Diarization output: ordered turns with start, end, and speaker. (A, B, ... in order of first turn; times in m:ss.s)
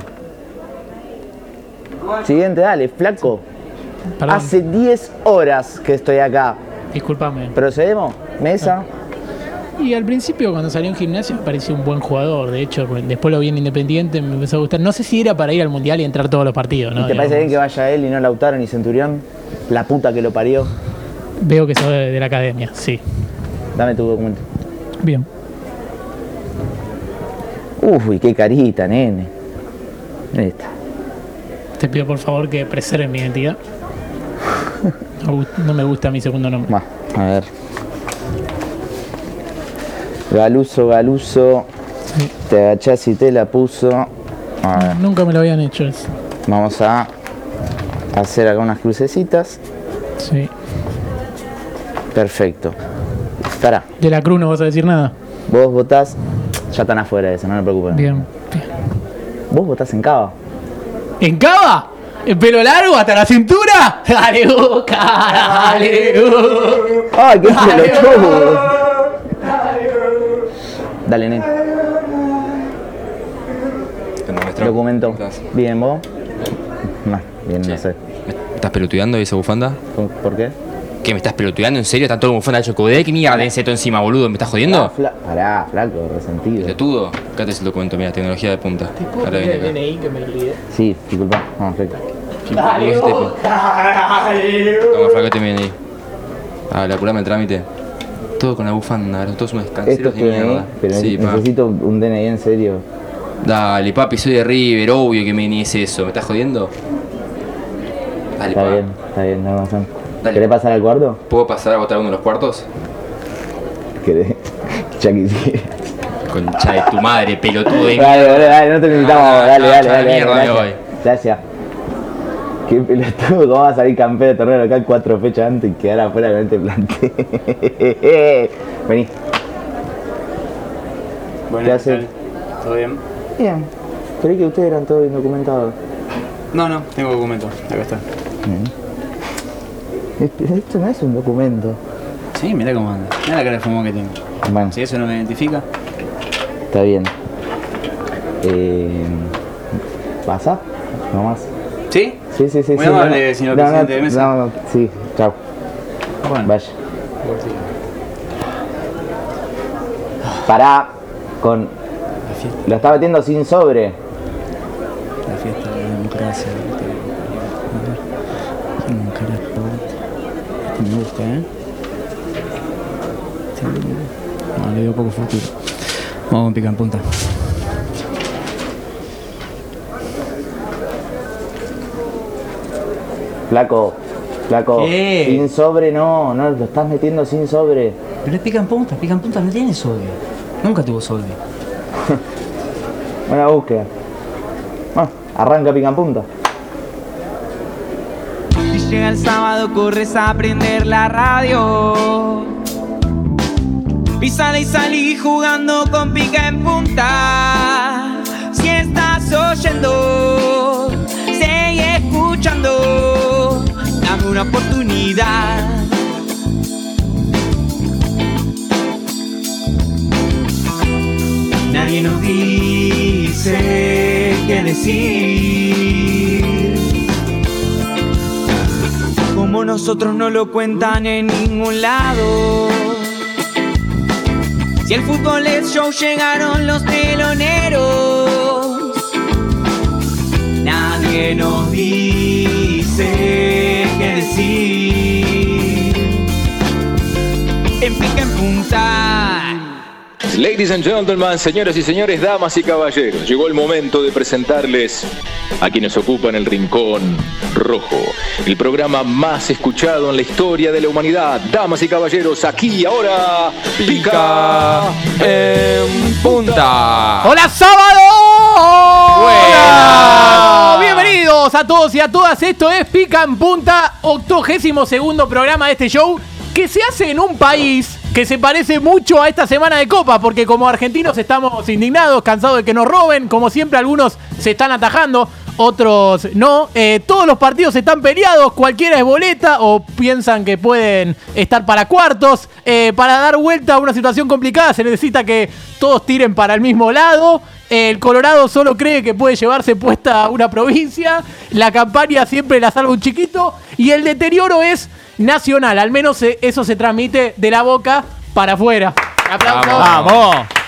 0:02.1-0:03.4 A
0:04.2-0:04.5 B
0:04.3-0:06.6 A
0:06.9-0:07.6 B
0:07.6-0:08.9 A
0:09.8-0:17.5 B
0:17.0-0:20.7 A
0:21.4-0:23.0 B
0:23.8-0:24.4 A
0:27.8-0:29.3 A
0:30.3-0:30.7 A
0:31.8-0:33.6 B
0:35.2-0:36.7 B
0:36.7-0:37.5 A
0:40.3-0:41.7 A
0:42.5-0:44.1 A
0:44.6-0:45.0 A
0:44.8-0:46.1 B
0:46.5-0:47.1 A
0:48.1-0:49.6 A
0:50.2-0:50.5 B
0:52.1-0:52.8 A
0:53.4-0:53.8 A
0:54.0-0:55.1 B
0:55.5-0:56.2 A
0:56.7-0:58.3 A
0:57.9-0:58.7 B
0:59.5-1:00.3 A
1:01.2-1:08.4 B
1:07.1-1:08.8 A
1:11.1-1:11.5 A
1:14.2-1:15.4 C
1:14.6-1:16.0 A
1:17.0-1:18.0 A
1:17.6-1:19.8 C
1:20.0-1:20.5 A
1:21.0-1:24.9 C
1:24.6-1:26.8 A
1:26.6-1:29.8 C
1:29.0-1:30.6 B
1:30.7-1:32.0 A
1:32.4-1:33.3 C
1:32.5-1:34.7 B
1:34.9-1:35.8 C
1:36.7-1:37.7 C
1:38.4-1:41.4 C
1:39.9-1:42.8 A
1:43.4-1:46.7 C
1:48.4-1:48.8 C
1:48.5-1:51.2 A
1:50.2-1:50.5 C
1:51.3-1:52.7 C
1:54.0-1:55.9 A
1:56.3-2:00.8 C
1:57.7-2:01.4 A
2:02.7-2:09.1 A
2:11.5-2:12.1 D
2:11.6-2:12.1 A
2:12.6-2:13.0 D
2:13.4-2:13.7 A
2:14.2-2:15.8 A
2:16.5-2:18.0 D
2:18.4-2:18.7 A
2:20.2-2:21.8 A
2:22.4-2:24.2 D
2:24.4-2:24.8 A
2:24.7-2:25.6 D
2:26.7-2:27.1 A
2:28.4-2:29.3 A
2:30.3-2:31.5 A
2:31.9-2:32.2 D
2:32.3-2:35.4 A
2:32.7-2:34.3 D
2:36.2-2:36.5 D
2:36.4-2:36.7 A
2:37.2-2:37.6 D
2:40.5-2:41.7 A
2:42.3-2:42.6 D
2:42.6-2:44.0 A
2:45.3-2:48.0 D
2:48.8-2:49.9 D
2:50.8-2:51.5 D
2:53.6-2:57.3 D
3:03.5-3:08.0 A
3:04.8-3:05.4 D
3:08.2-3:11.4 D
3:13.3-3:13.9 A
3:14.9-3:16.3 A
3:18.7-3:22.5 E
3:24.2-3:35.9 E
3:41.7-3:46.8 E
3:49.3-3:53.2 E
3:54.8-3:59.0 E
4:00.6-4:06.2 E
4:07.8-4:09.7 E
4:10.3-4:15.1 F
4:15.6-4:25.1 F
4:23.8-4:27.4 C
4:27.2-5:09.9 B
4:29.1-4:31.1 C
5:09.4-5:10.3 C
5:09.8-5:10.5 D